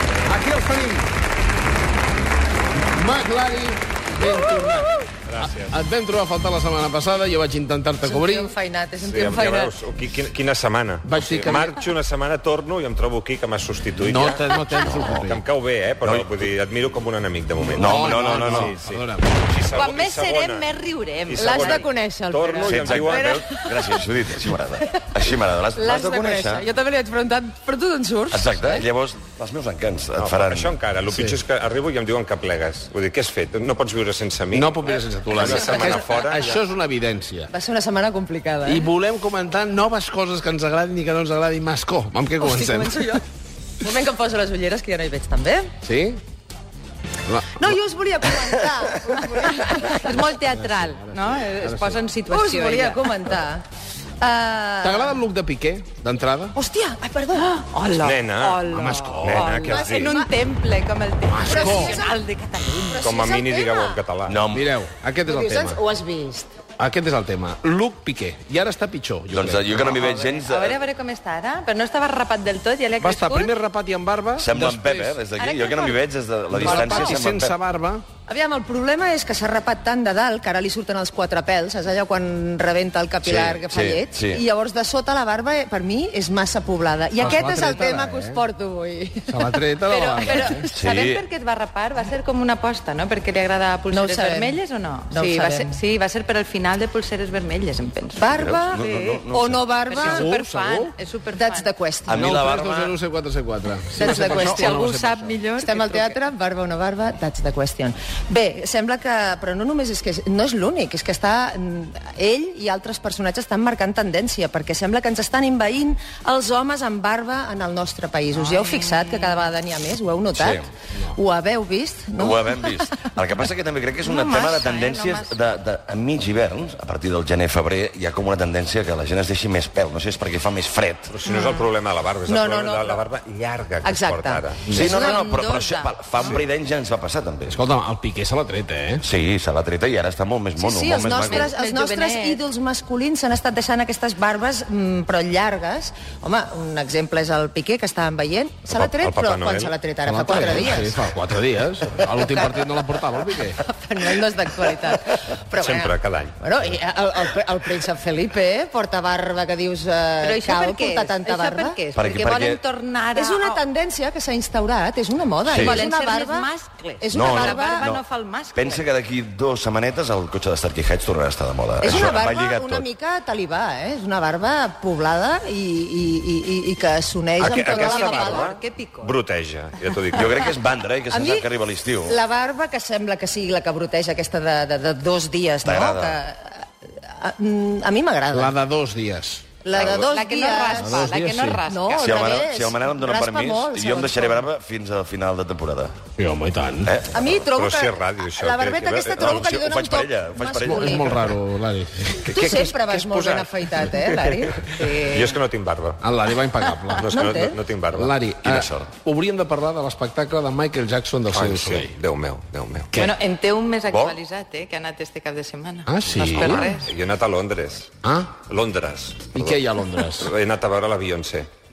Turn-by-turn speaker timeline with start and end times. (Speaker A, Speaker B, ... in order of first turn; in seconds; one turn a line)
Speaker A: 0.3-1.1
Speaker A: 2.8-8.5
Speaker B: 5.3-5.8
Speaker C: 8.0-9.8
Speaker B: 9.0-20.7
Speaker A: 11.1-11.8
Speaker A: 14.0-15.4
Speaker D: 14.8-15.3
Speaker D: 16.0-16.4
Speaker A: 17.6-19.4
Speaker D: 17.7-18.8
Speaker E: 19.7-21.9
Speaker B: 21.3-23.6
Speaker C: 21.4-28.9
Speaker D: 22.6-26.7
Speaker D: 28.3-30.8
Speaker B: 30.2-34.8
Speaker A: 31.1-31.4
Speaker A: 34.5-37.5
Speaker B: 35.3-36.6
Speaker C: 35.4-36.0
Speaker C: 37.5-38.9
Speaker A: 38.6-43.1
Speaker C: 42.4-43.2
Speaker C: 43.8-45.7
Speaker A: 45.9-46.2
Speaker A: 47.3-47.8
Speaker C: 47.5-50.3
Speaker E: 49.9-53.4
Speaker A: 50.5-51.1
Speaker A: 51.6-52.0
Speaker C: 52.3-53.6
Speaker C: 54.2-55.2
Speaker A: 54.8-56.6
Speaker C: 56.5-57.5
Speaker E: 57.3-63.1
Speaker B: 57.9-58.7
Speaker A: 58.7-59.6
Speaker B: 59.2-60.1
Speaker C: 59.6-60.3
Speaker A: 61.3-62.0
Speaker C: 61.4-62.2
Speaker C: 62.8-64.0
Speaker B: 63.0-64.4
Speaker D: 64.2-64.8
Speaker A: 64.5-65.8
Speaker C: 65.2-66.6
Speaker A: 66.8-70.0
Speaker D: 69.3-70.8
Speaker E: 69.8-73.5
Speaker A: 73.0-75.2
Speaker D: 74.3-77.6
Speaker E: 75.3-76.0
Speaker A: 76.5-78.0
Speaker E: 76.6-77.2
Speaker C: 78.3-89.6
Speaker D: 83.2-84.5
Speaker A: 87.2-88.4
Speaker A: 89.3-90.7
Speaker E: 89.9-99.2
Speaker C: 90.3-90.9
Speaker D: 90.7-91.2
Speaker C: 93.9-95.8
Speaker C: 98.2-100.3
Speaker D: 98.3-99.7
Speaker E: 99.9-101.7
Speaker A: 100.0-100.9
Speaker C: 101.3-102.3
Speaker D: 102.1-103.0
Speaker A: 102.1-105.4
Speaker C: 104.0-104.6
Speaker E: 104.0-106.2
Speaker C: 105.5-123.1
Speaker E: 118.3-119.5
Speaker D: 120.4-120.7
Speaker D: 122.2-131.2
Speaker E: 124.0-125.4
Speaker B: 131.1-134.6
Speaker C: 131.3-131.6
Speaker C: 132.3-133.1
Speaker C: 133.8-135.2
Speaker A: 134.7-135.0
Speaker D: 134.7-137.6
Speaker E: 134.7-136.4
Speaker A: 137.5-139.1
Speaker D: 139.0-141.5
Speaker C: 140.6-151.1
Speaker E: 141.1-142.4
Speaker B: 148.7-149.8
Speaker A: 150.1-153.6
Speaker C: 152.0-161.8
Speaker B: 155.6-156.4
Speaker E: 160.2-163.6
Speaker D: 161.9-162.6
Speaker C: 163.1-168.0
Speaker D: 165.5-165.9
Speaker E: 165.6-168.8
Speaker D: 167.1-168.0
Speaker D: 168.5-172.9
Speaker C: 171.8-178.5
Speaker E: 177.4-179.1
Speaker B: 177.4-180.5
Speaker D: 180.1-182.2
Speaker C: 181.1-181.5
Speaker C: 182.0-188.6
Speaker D: 185.6-186.2
Speaker A: 188.3-189.6
Speaker C: 189.6-191.1
Speaker B: 189.7-190.1
Speaker E: 189.8-192.4
Speaker A: 190.8-191.6
Speaker C: 191.6-194.5
Speaker D: 192.0-196.0
Speaker A: 196.2-197.0
Speaker D: 196.8-197.5
Speaker C: 197.1-201.4
Speaker B: 197.6-199.5
Speaker D: 199.1-201.1
Speaker A: 200.6-202.3
Speaker B: 202.2-204.4
Speaker C: 202.3-205.1
Speaker E: 204.7-205.3
Speaker B: 205.0-206.0
Speaker A: 206.0-207.2
Speaker B: 207.0-208.2
Speaker C: 207.1-207.6
Speaker A: 207.9-211.9
Speaker D: 208.4-209.0
Speaker B: 211.3-212.9
Speaker E: 213.0-216.9
Speaker D: 213.9-214.2
Speaker A: 215.9-216.6
Speaker B: 216.2-219.6
Speaker A: 218.0-218.3
Speaker A: 219.3-220.3
Speaker B: 220.2-221.5